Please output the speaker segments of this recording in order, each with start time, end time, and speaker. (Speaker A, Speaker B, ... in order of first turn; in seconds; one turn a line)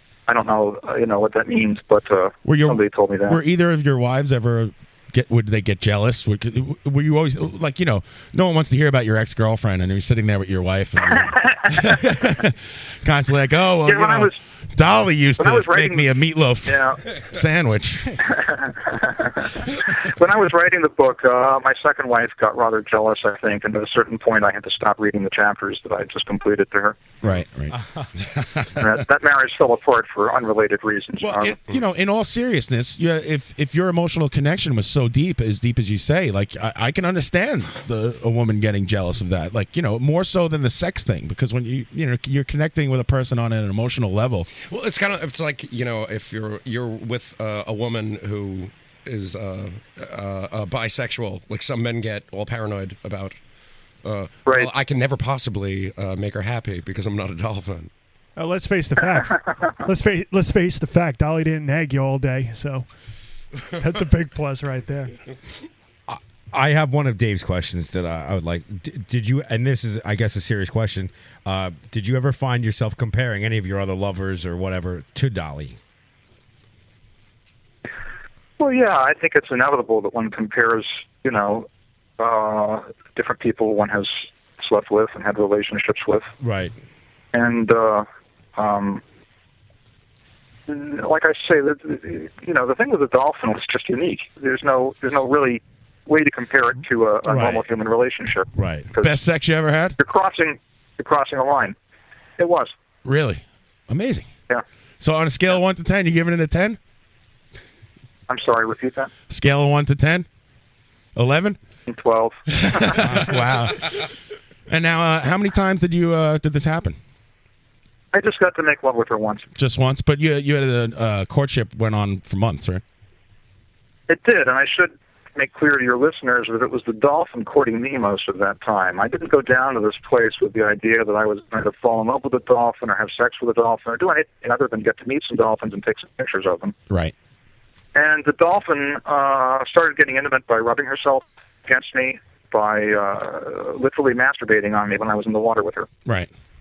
Speaker A: 0.3-3.4
Speaker B: 2.5-18.2
Speaker A: 11.3-11.9
Speaker A: 13.9-14.4
Speaker A: 15.4-16.1
Speaker A: 16.7-17.0
Speaker A: 18.2-27.0
Speaker B: 27.2-27.8
Speaker C: 27.7-28.1
Speaker B: 28.3-28.8
Speaker A: 28.8-31.6
Speaker B: 31.2-44.5
Speaker D: 44.6-53.4
Speaker D: 54.0-57.9
Speaker E: 58.4-62.9
Speaker E: 63.8-65.1
Speaker C: 66.1-75.8
Speaker A: 78.6-81.7
Speaker A: 82.2-86.3
Speaker C: 86.4-86.7
Speaker A: 87.3-89.0
Speaker A: 90.7-99.2
Speaker C: 97.3-97.6
Speaker C: 98.6-98.9
Speaker B: 99.0-100.0
Speaker A: 100.0-101.8
Speaker A: 102.4-102.7
Speaker B: 103.0-104.3
Speaker B: 105.0-106.8
Speaker A: 108.3-109.1
Speaker B: 109.3-110.3
Speaker B: 111.2-111.6
Speaker A: 111.9-113.1
Speaker B: 112.5-114.0
Speaker C: 113.1-113.4
Speaker B: 114.7-117.0
Speaker A: 118.1-119.5
Speaker B: 119.6-122.8
Speaker A: 124.1-136.8
Speaker A: 137.9-145.9